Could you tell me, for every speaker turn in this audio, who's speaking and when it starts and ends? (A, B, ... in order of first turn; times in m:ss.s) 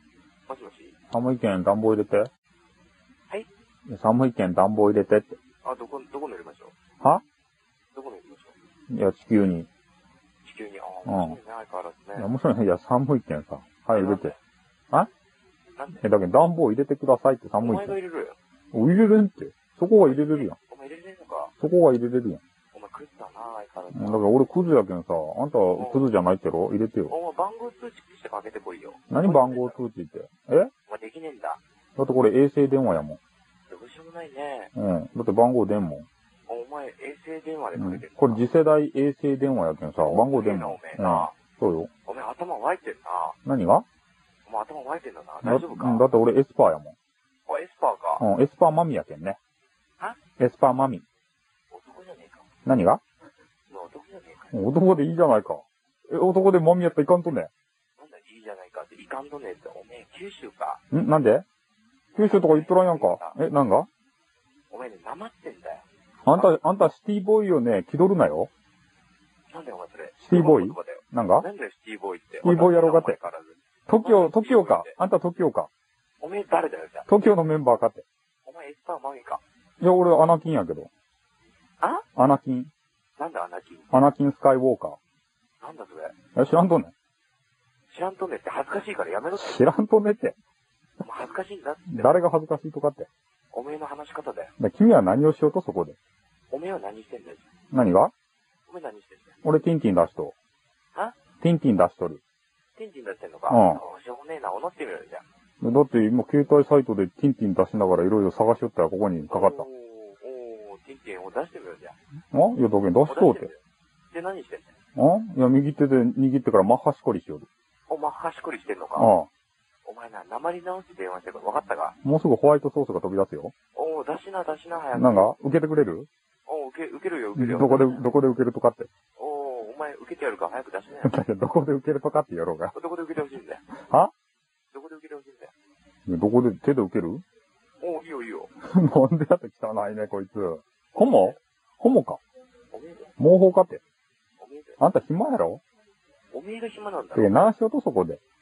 0:00.5-0:01.0 A
0:01.1-0:02.3 B
0:03.9-0:05.4 B
0:05.6-0:06.7 A
0:07.9-0:08.5 A
0:08.9-0:09.7 B
0:10.4-0:12.3 A
0:11.0-0:11.4 B
0:12.2-0:14.3 B
0:13.9-0:14.4 A
0:15.8-0:16.0 A
0:16.0-0:17.9 B
0:17.6-0:18.4 A
0:18.7-0:20.6 B
0:20.0-0:21.5 A
0:21.6-0:22.4 B
0:22.7-0:24.3 A
0:23.9-0:27.1 B
0:25.7-0:26.1 A
0:27.1-0:29.8 A
0:29.1-0:30.7 B
0:30.8-0:31.6 A
0:32.0-0:33.2 B
0:33.7-0:34.7 A
0:34.7-0:36.1 B
0:36.5-0:38.4 A
0:37.8-0:41.9 B
0:40.0-0:41.3 A
0:42.0-0:43.4 A
0:43.4-0:43.8 B
0:44.4-0:46.1 A
0:45.4-0:47.0 B
0:47.4-0:48.2 A
0:48.2-0:49.4 B
0:50.4-0:51.0 B
0:51.7-0:52.5 A
0:52.6-0:53.0 B
0:53.7-0:54.6 A
0:54.5-0:57.5 B
0:58.0-1:00.8 A
1:00.9-1:01.4 B
1:02.1-1:03.4 A
1:02.2-1:03.9 B
1:04.7-1:06.5 A
1:06.2-1:08.5 B
1:09.5-1:14.9 A
1:10.2-1:11.5 B
1:12.4-1:13.2 B
1:13.9-1:15.7 B
1:16.2-1:17.1 A
1:17.1-1:18.0 B
1:18.4-1:19.4 A
1:19.8-1:20.9 B
1:21.8-1:22.0 A
1:22.2-1:22.7 B
1:23.2-1:24.0 A
1:23.9-1:25.0 B
1:25.6-1:26.1 A
1:26.3-1:26.9 B
1:27.9-1:29.6 A
1:29.4-1:30.4 B
1:31.0-1:32.2 A
1:31.9-1:33.1 B
1:33.5-1:34.5 A
1:34.6-1:36.0 B
1:36.5-1:37.5 A
1:37.7-1:38.1 B
1:38.7-1:39.4 A
1:39.4-1:40.3 B
1:41.4-1:42.2 B
1:42.7-1:45.2 A
1:43.5-1:43.8 B
1:45.6-1:49.6 B
1:49.3-1:52.0 A
1:52.3-1:53.5 B
1:53.0-1:53.6 A
1:54.1-1:54.7 A
1:55.0-1:57.5 B
1:57.9-1:59.1 A
1:59.0-1:59.3 B
1:59.8-2:02.0 A
2:02.0-2:03.5 B
2:03.7-2:05.3 A
2:04.9-2:06.1 B
2:06.4-2:08.0 A
2:07.4-2:08.9 B
2:09.2-2:11.1 A
2:11.0-2:12.7 B
2:12.7-2:13.6 A
2:13.8-2:14.1 B
2:14.7-2:15.5 A
2:16.1-2:17.2 B
2:17.8-2:18.5 A
2:18.6-2:22.2 B
2:20.9-2:21.4 A
2:22.7-2:23.1 A
2:23.2-2:23.8 B
2:24.4-2:24.8 A
2:24.8-2:25.6 B
2:26.3-2:27.4 A
2:27.1-2:28.2 B